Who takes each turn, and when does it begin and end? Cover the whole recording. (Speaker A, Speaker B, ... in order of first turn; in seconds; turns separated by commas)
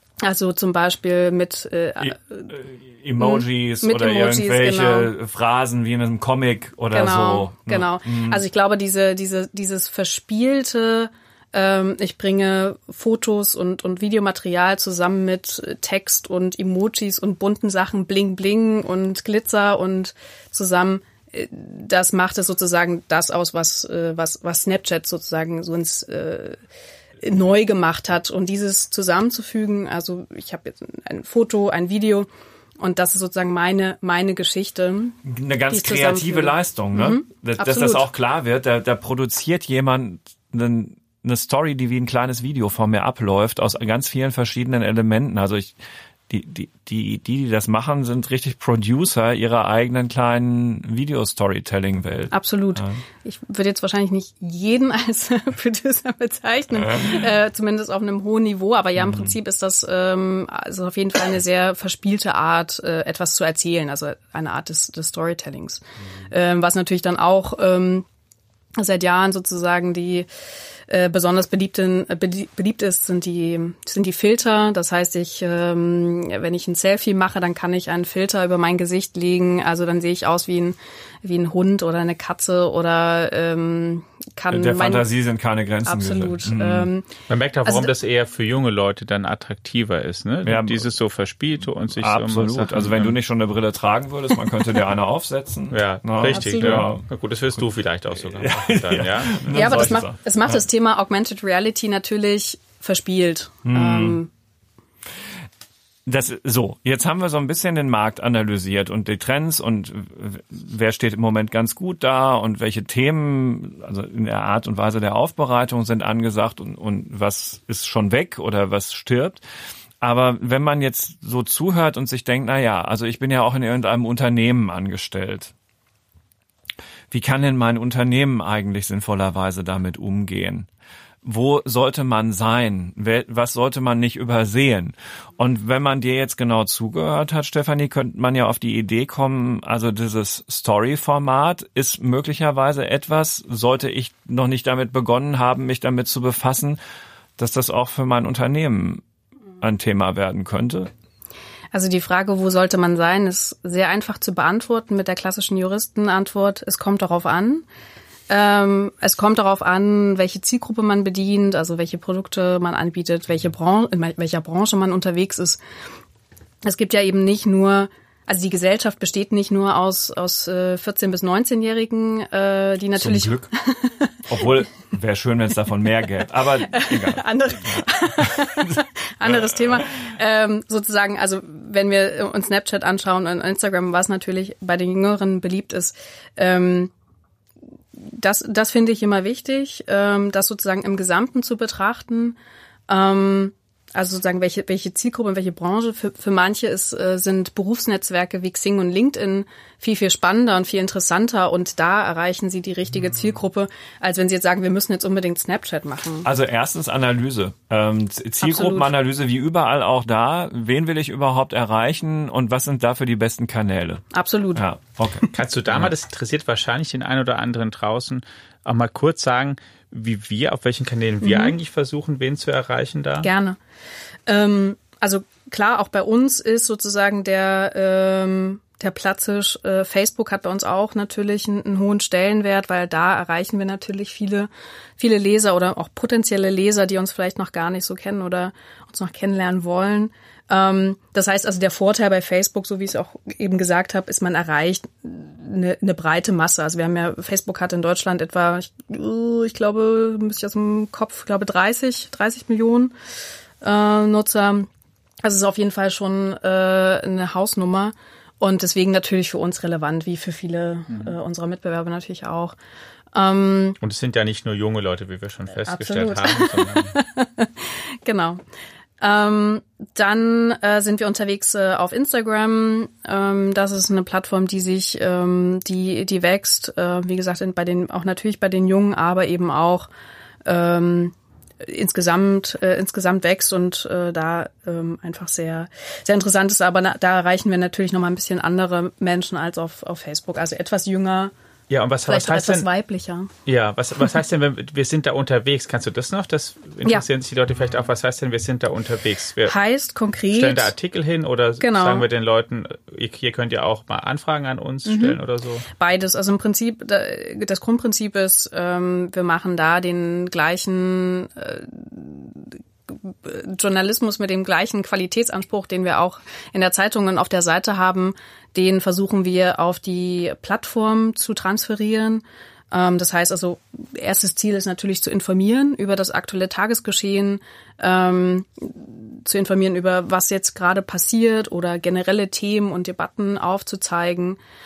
Speaker A: 0.2-2.5, Speaker B: 2.0-8.4, Speaker A: 3.2-5.1, Speaker A: 6.9-26.6, Speaker A: 27.2-32.3, Speaker A: 32.8-35.2, Speaker B: 35.2-45.7, Speaker A: 35.7-38.0, Speaker B: 46.3-53.0, Speaker A: 52.3-68.0, Speaker B: 56.8-57.4, Speaker B: 59.0-59.3, Speaker A: 68.8-70.3, Speaker A: 70.9-85.1, Speaker B: 84.5-86.9, Speaker A: 85.8-87.1, Speaker C: 87.3-93.2, Speaker A: 87.6-87.9, Speaker B: 90.4-90.8, Speaker B: 91.9-97.0, Speaker C: 95.7-99.8, Speaker A: 96.3-96.9, Speaker B: 98.3-100.6, Speaker A: 99.5-104.3, Speaker B: 103.7-104.2, Speaker B: 106.0-119.4, Speaker B: 120.0-125.5, Speaker B: 127.1-130.7, Speaker B: 131.2-146.8, Speaker B: 147.4-149.0, Speaker B: 149.6-150.9, Speaker A: 151.7-157.6, Speaker A: 158.3-165.6, Speaker A: 166.6-174.5, Speaker B: 173.0-173.5, Speaker B: 174.3-178.8, Speaker A: 176.7-186.9, Speaker B: 179.3-179.8, Speaker A: 187.9-192.4, Speaker A: 192.9-206.3, Speaker B: 206.2-215.9, Speaker A: 208.4-208.9, Speaker A: 214.1-214.6, Speaker C: 215.3-223.3, Speaker A: 221.2-221.6, Speaker A: 223.2-223.6, Speaker A: 224.3-252.9, Speaker A: 253.6-254.7, Speaker A: 255.2-262.5, Speaker A: 263.1-263.8, Speaker C: 263.8-266.9, Speaker A: 265.7-268.4, Speaker A: 269.0-279.9, Speaker A: 280.4-291.3, Speaker C: 291.7-292.7, Speaker A: 292.1-293.3, Speaker C: 293.4-299.5, Speaker A: 299.5-300.7, Speaker C: 300.3-305.6, Speaker A: 301.6-302.1, Speaker A: 304.9-305.2, Speaker A: 305.8-334.4